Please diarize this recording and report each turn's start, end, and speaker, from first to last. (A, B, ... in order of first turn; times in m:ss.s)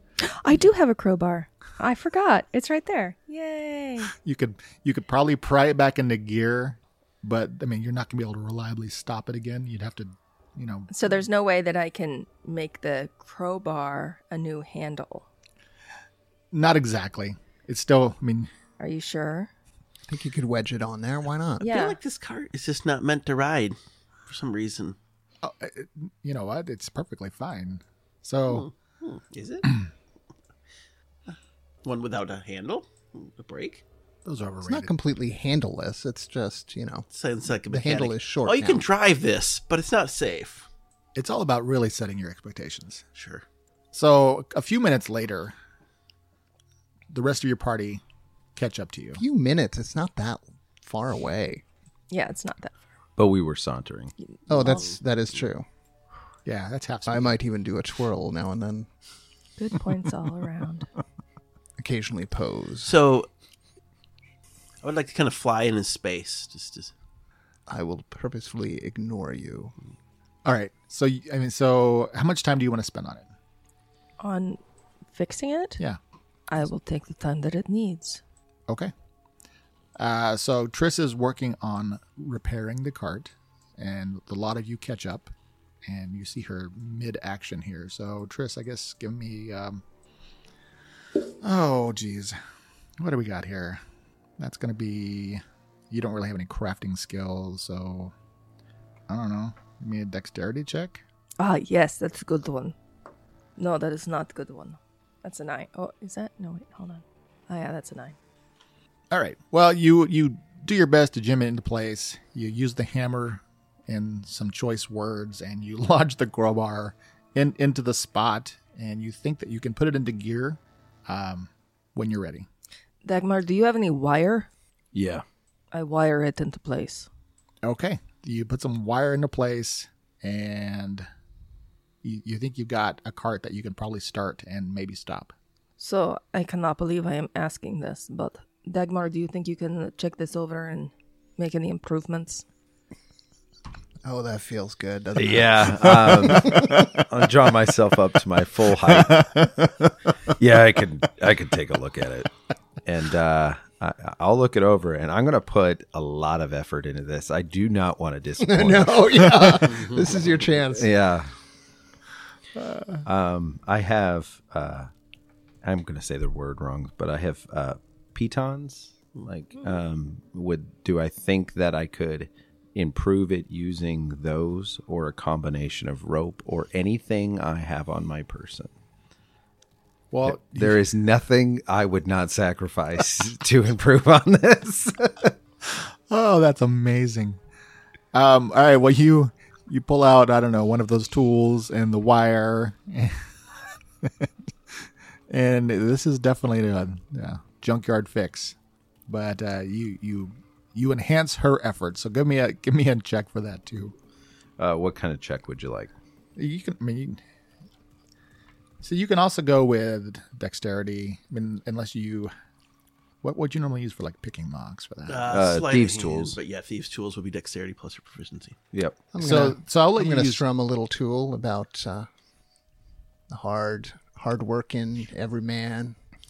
0:00.2-0:04.1 A
0:04.2-0:10.9 B
0:10.9-0:15.3 A
0:16.5-0:18.5 B
0:18.8-0:19.5 A
0:20.1-0:21.7 C
0:21.6-0:22.0 A
0:21.6-0:25.0 D
0:25.4-0:28.7 B
0:28.4-0:29.7 D
0:31.3-0:33.8 D
0:34.2-0:34.9 B
0:34.6-0:37.0 C
0:37.1-0:40.7 D
0:37.7-0:38.8 C
0:41.1-0:43.0 B
0:43.1-0:43.4 D
0:43.9-0:45.5 B
0:47.1-0:48.0 B
0:48.6-0:49.2 B
0:49.2-0:51.6 C
0:52.1-0:52.8 A
0:53.2-0:54.1 E
0:54.5-0:55.6 C
0:56.4-0:57.3 B
0:57.1-0:58.9 C
0:59.6-1:00.9 A
1:01.8-1:02.9 C
1:02.8-1:03.3 D
1:04.8-1:06.9 D
1:07.7-1:09.7 C
1:10.4-1:13.3 B
1:14.2-1:14.6 A
1:15.1-1:15.8 A
1:16.5-1:18.2 A
1:20.0-1:25.3 B
1:25.8-1:29.8 B
1:31.4-1:32.4 B
1:33.0-1:33.8 B
1:34.4-1:38.1 B
1:39.1-1:41.0 B
1:41.4-1:42.7 A
1:43.6-1:48.1 A
1:49.1-2:02.5 B
2:03.0-2:04.5 A
2:04.9-2:05.2 E
2:05.7-2:07.1 A
2:07.6-2:11.1 B
2:12.0-2:15.3 B
2:15.8-2:22.4 A
2:24.0-2:26.8 C
2:25.2-2:29.3 E
2:26.2-2:26.8 B
2:28.9-2:29.9 B
2:30.4-2:32.3 E
2:32.8-2:39.4 E
2:38.4-2:40.9 C
2:39.4-2:39.7 B
2:39.6-2:40.1 D
2:40.7-2:41.3 E
2:43.0-2:44.9 E
2:45.6-2:58.7 E
3:00.1-3:00.8 B
3:00.2-3:05.3 E
3:05.7-3:07.4 B
3:08.1-3:13.2 B
3:14.0-3:18.6 B
3:19.1-3:23.9 B
3:24.6-3:25.9 E
3:26.4-3:27.2 B
3:28.8-3:32.3 B
3:33.2-3:35.4 B
3:35.1-3:38.6 D
3:35.3-3:36.4 E
3:38.7-3:39.1 E
3:39.1-3:42.1 C
3:39.2-3:40.4 B
3:43.3-3:46.0 C